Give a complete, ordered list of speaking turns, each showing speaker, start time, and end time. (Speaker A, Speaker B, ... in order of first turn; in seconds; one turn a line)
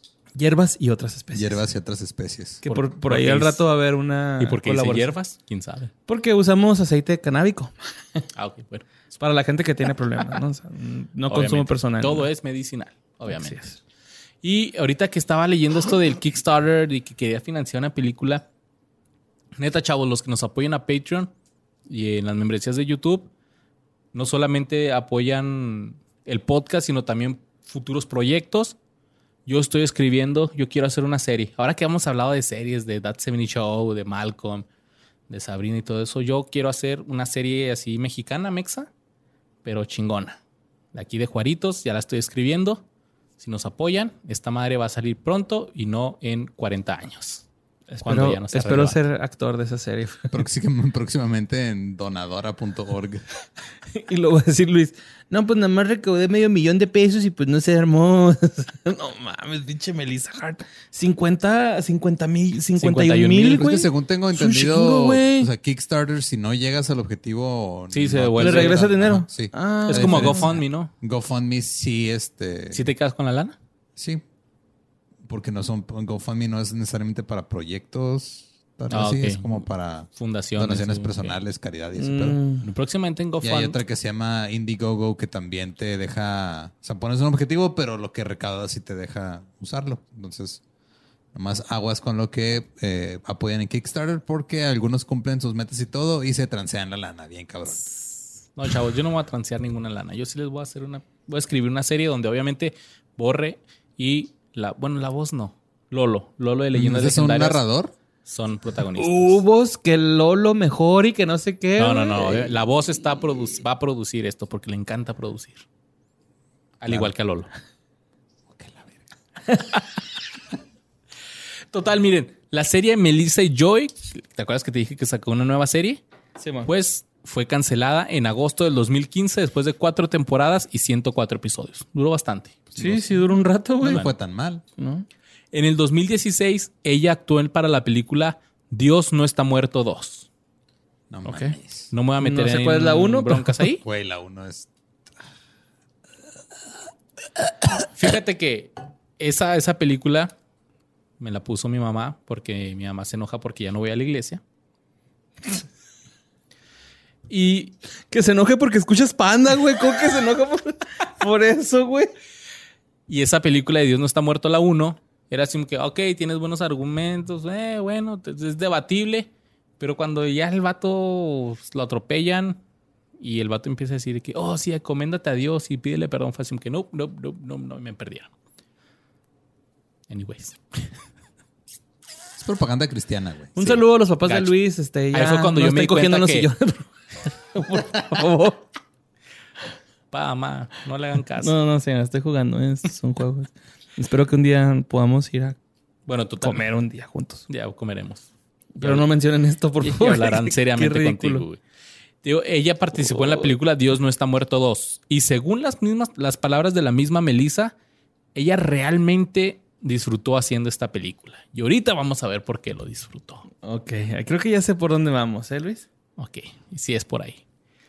Speaker A: 0.4-1.6
Speaker B: 1.3-2.6
Speaker A: 2.6-5.1
Speaker C: 2.7-3.6
Speaker C: 4.4-5.9
Speaker A: 6.1-8.2
Speaker C: 8.3-8.9
Speaker A: 9.2-12.3
Speaker C: 11.3-13.6
Speaker A: 13.3-13.8
Speaker C: 14.4-18.4
Speaker C: 19.6-21.3
Speaker C: 21.9-23.3
Speaker C: 24.1-28.8
Speaker C: 29.5-34.7
Speaker C: 35.3-38.9
Speaker C: 39.6-40.4
Speaker C: 40.9-42.8
Speaker C: 43.4-47.5
Speaker A: 47.9-50.4
Speaker C: 48.0-49.0
Speaker B: 50.3-53.2
Speaker A: 53.9-65.5
Speaker C: 62.8-63.7
Speaker B: 63.5-72.8
Speaker C: 67.9-68.8
Speaker A: 68.4-70.5
Speaker C: 69.9-70.9
Speaker C: 72.7-73.6
Speaker B: 74.0-74.2
Speaker B: 75.3-82.4
Speaker C: 78.9-79.6
Speaker C: 80.1-81.4
Speaker A: 82.0-82.7
Speaker C: 82.6-83.8
Speaker B: 83.4-90.6
Speaker B: 91.3-97.9
Speaker C: 97.9-107.6
Speaker B: 106.7-107.9
Speaker C: 108.2-109.4
Speaker A: 109.0-112.6
Speaker C: 111.8-115.7
Speaker C: 116.8-117.5
Speaker B: 118.5-118.9
Speaker C: 121.7-126.0
Speaker A: 126.4-126.7
Speaker C: 126.7-132.9
Speaker A: 132.8-134.1
Speaker B: 133.8-134.6
Speaker A: 134.8-135.1
Speaker C: 135.5-140.3
Speaker B: 141.1-141.9
Speaker A: 141.3-141.6
Speaker C: 141.9-143.8
Speaker A: 142.2-143.6
Speaker B: 143.8-144.7
Speaker C: 147.9-150.3
Speaker C: 151.2-154.4
Speaker C: 157.3-157.7
Speaker A: 158.1-162.1
Speaker C: 163.1-172.6
Speaker C: 173.2-178.3
Speaker C: 180.1-180.9
Speaker B: 182.4-183.8
Speaker A: 183.6-188.6
Speaker C: 184.2-184.5
Speaker C: 185.1-186.5
Speaker C: 190.1-191.5
Speaker A: 191.4-195.6
Speaker C: 196.1-196.6
Speaker A: 196.4-197.5
Speaker C: 197.5-198.3
Speaker A: 198.8-201.4
Speaker C: 198.8-199.1
Speaker C: 199.8-201.6
Speaker C: 202.2-207.7
Speaker C: 208.3-213.5
Speaker A: 213.6-215.9
Speaker C: 216.2-217.4